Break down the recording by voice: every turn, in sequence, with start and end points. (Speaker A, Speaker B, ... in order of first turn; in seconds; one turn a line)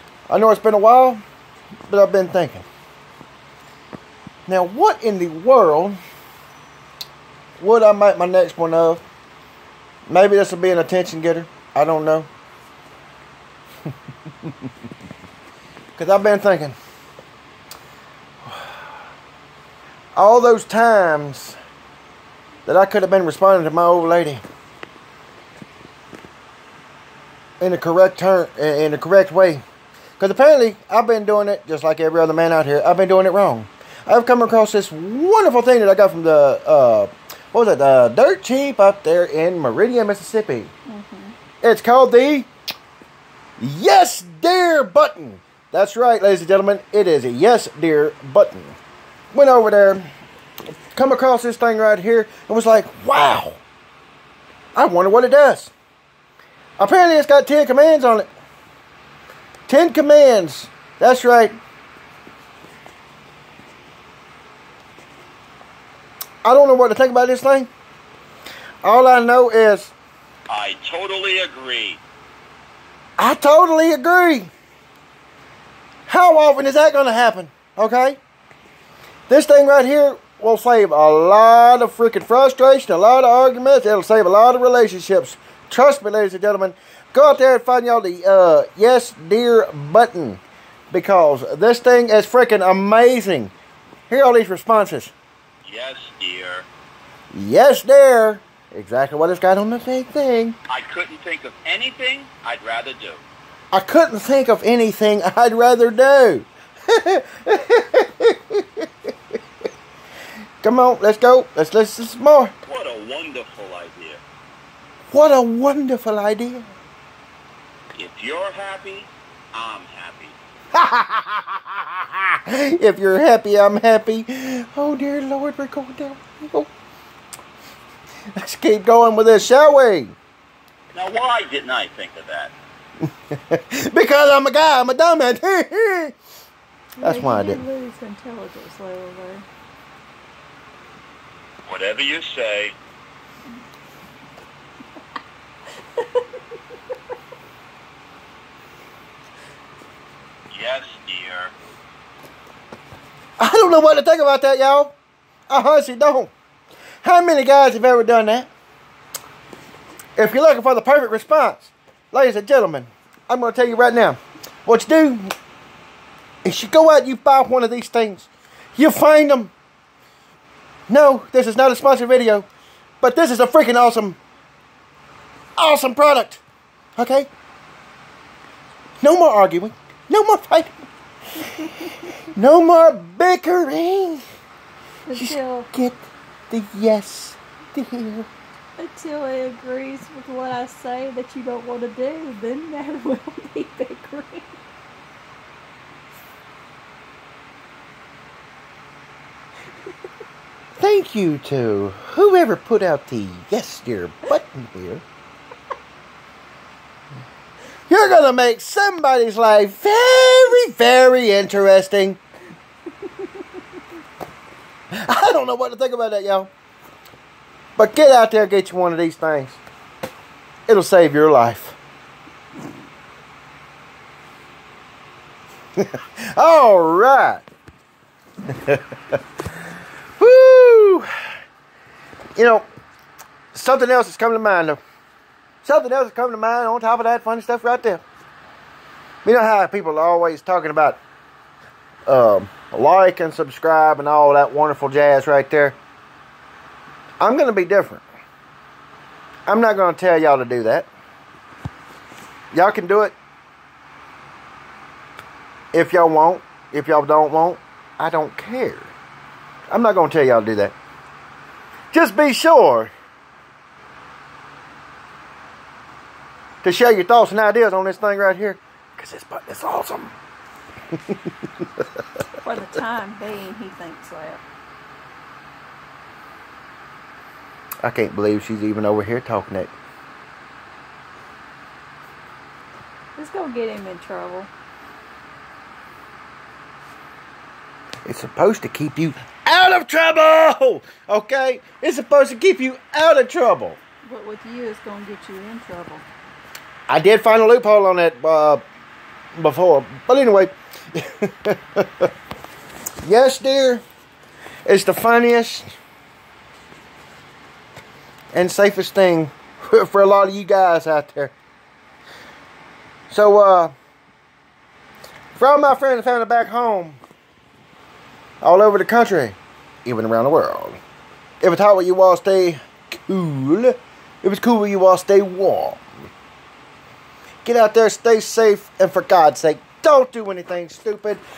Speaker A: 0.3-1.2
Speaker A: 1.9-2.6
Speaker A: 4.5-6.0
Speaker A: 7.6-9.0
Speaker A: 10.1-12.3
Speaker A: 15.9-16.8
Speaker A: 20.1-21.6
Speaker A: 22.7-24.4
Speaker A: 27.6-29.6
Speaker A: 30.2-40.7
Speaker B: 40.9-41.4
Speaker A: 41.6-42.5
Speaker A: 43.6-48.8
Speaker A: 49.3-50.0
Speaker A: 51.0-53.6
Speaker A: 54.8-55.7
Speaker A: 56.8-58.3
Speaker A: 59.7-61.6
Speaker A: 66.4-67.7
Speaker A: 68.8-69.9
Speaker C: 70.5-72.0
Speaker A: 73.2-74.5
Speaker A: 76.1-78.2
Speaker A: 79.3-93.5
Speaker A: 94.1-95.1
Speaker C: 95.7-96.7
Speaker A: 97.3-100.6
Speaker C: 100.7-103.2
Speaker A: 103.7-108.9
Speaker A: 110.6-112.5
Speaker C: 112.7-114.2
Speaker A: 115.1-116.7
Speaker C: 118.0-120.4
Speaker A: 120.7-126.7
Speaker A: 128.4-130.2
Speaker C: 130.9-132.5
Speaker A: 133.3-136.2
Speaker B: 137.0-139.5
Speaker A: 137.0-137.6
Speaker C: 141.7-142.8
Speaker B: 146.0-146.2
Speaker C: 150.5-151.6
Speaker A: 153.4-154.9
Speaker A: 155.5-156.3
Speaker A: 157.0-158.5
Speaker A: 160.2-165.3
Speaker A: 166.4-169.5
Speaker A: 170.9-172.5
Speaker A: 173.0-174.2
Speaker A: 175.6-176.4
Speaker A: 177.0-177.3
Speaker A: 179.0-180.7
Speaker A: 181.4-184.2
Speaker B: 185.1-185.7
Speaker A: 185.1-188.3
Speaker B: 188.8-194.6
Speaker A: 200.8-205.0
Speaker A: 207.9-212.2
Speaker A: 215.0-216.5
Speaker A: 217.8-219.6
Speaker A: 220.7-221.8
Speaker A: 225.8-227.4
Speaker A: 228.7-229.2
Speaker A: 230.2-231.1
Speaker A: 232.4-232.7
Speaker A: 233.5-234.8
Speaker A: 235.6-238.0
Speaker A: 239.2-241.0
Speaker A: 242.1-245.8
Speaker A: 247.2-248.1
Speaker A: 249.5-250.9
Speaker A: 252.5-253.2
Speaker A: 255.7-258.9
Speaker A: 259.7-260.8
Speaker A: 261.9-262.9
Speaker A: 266.6-270.1
Speaker B: 272.4-274.4
Speaker A: 277.8-279.7
Speaker B: 283.2-284.5
Speaker A: 288.1-293.8
Speaker B: 294.0-296.1
Speaker A: 296.9-298.6
Speaker A: 299.4-302.1
Speaker A: 303.0-303.8
Speaker A: 304.7-305.6
Speaker A: 308.3-311.4
Speaker A: 313.1-313.7
Speaker A: 315.4-317.0
Speaker A: 318.4-320.8
Speaker A: 321.4-325.8
Speaker A: 327.4-331.2